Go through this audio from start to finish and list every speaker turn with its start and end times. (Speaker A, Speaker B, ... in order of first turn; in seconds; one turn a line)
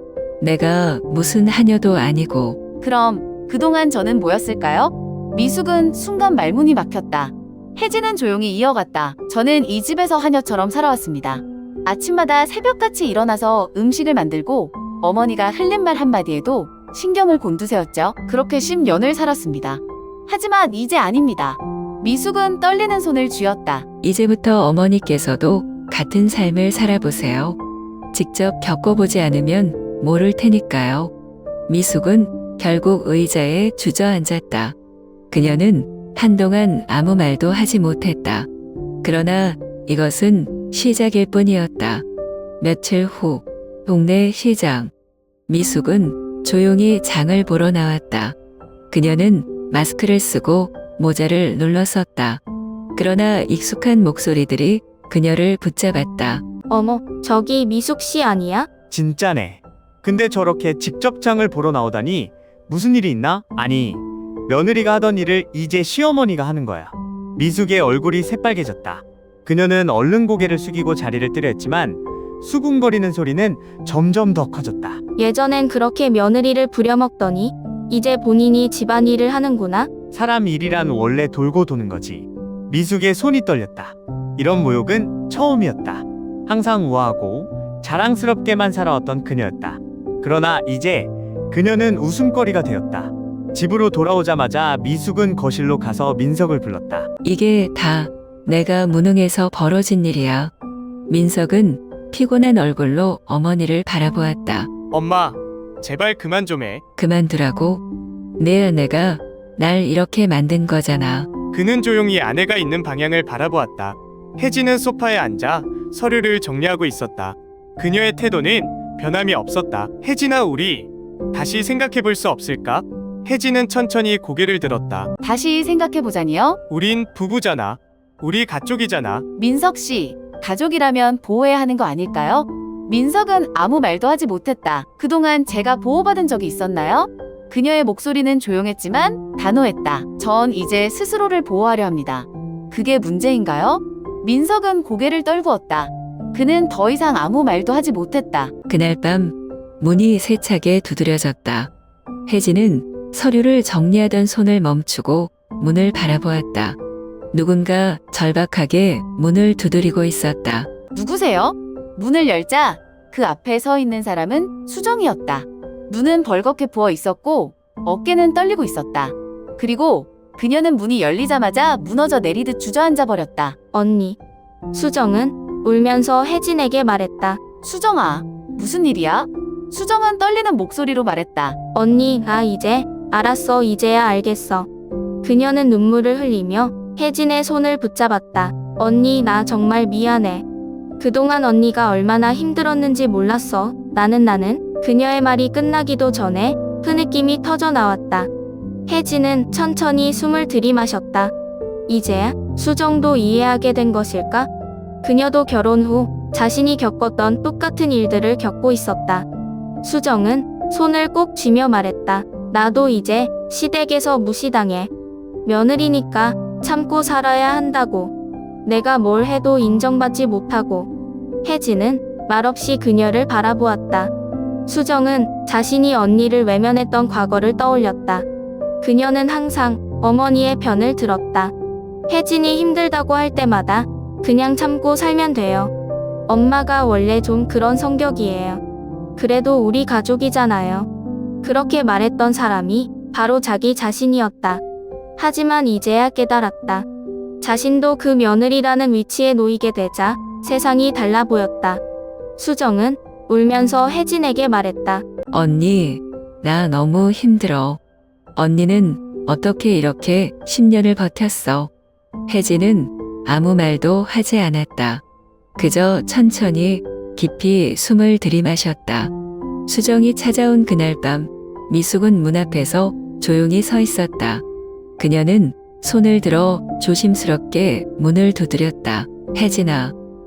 Speaker A: 0.4-2.6
Speaker B: 2.8-23.9
Speaker A: 24.0-27.6
Speaker A: 28.1-31.1
Speaker A: 31.7-34.8
Speaker A: 35.3-38.5
Speaker A: 39.0-42.0
Speaker A: 42.6-44.9
Speaker A: 45.5-48.4
Speaker A: 48.9-52.4
Speaker A: 53.0-56.4
Speaker C: 56.7-58.7
Speaker D: 58.9-75.0
Speaker C: 75.2-79.9
Speaker D: 80.1-97.1
Speaker A: 97.2-100.5
Speaker A: 101.1-104.7
Speaker E: 104.9-106.8
Speaker A: 107.0-107.8
Speaker A: 108.4-111.3
Speaker E: 111.5-125.1
Speaker B: 125.2-126.6
Speaker E: 126.7-129.2
Speaker B: 129.4-148.5
Speaker A: 148.7-151.7
Speaker A: 152.3-156.8
Speaker A: 157.3-160.7
Speaker B: 160.9-173.6
Speaker C: 173.7-174.2
Speaker C: 174.7-177.4
Speaker B: 177.6-181.6
Speaker C: 181.7-184.7
Speaker C: 185.2-190.4
Speaker C: 191.0-198.3
Speaker C: 198.9-201.3
Speaker C: 201.9-204.5
Speaker C: 205.0-209.3
Speaker C: 209.8-214.9
Speaker C: 215.4-218.1
Speaker C: 218.7-220.9
Speaker C: 221.4-224.1
Speaker C: 224.7-228.3
Speaker C: 228.8-231.5
Speaker C: 232.1-235.7
Speaker C: 236.3-238.6
Speaker C: 239.2-240.9
Speaker C: 241.4-244.6
Speaker C: 245.2-246.9
Speaker C: 247.4-251.8
Speaker C: 252.4-255.1
Speaker A: 255.3-257.8
Speaker A: 258.4-261.7
Speaker A: 262.3-265.0
Speaker A: 265.6-269.1
Speaker A: 269.7-274.4
Speaker A: 275.0-279.9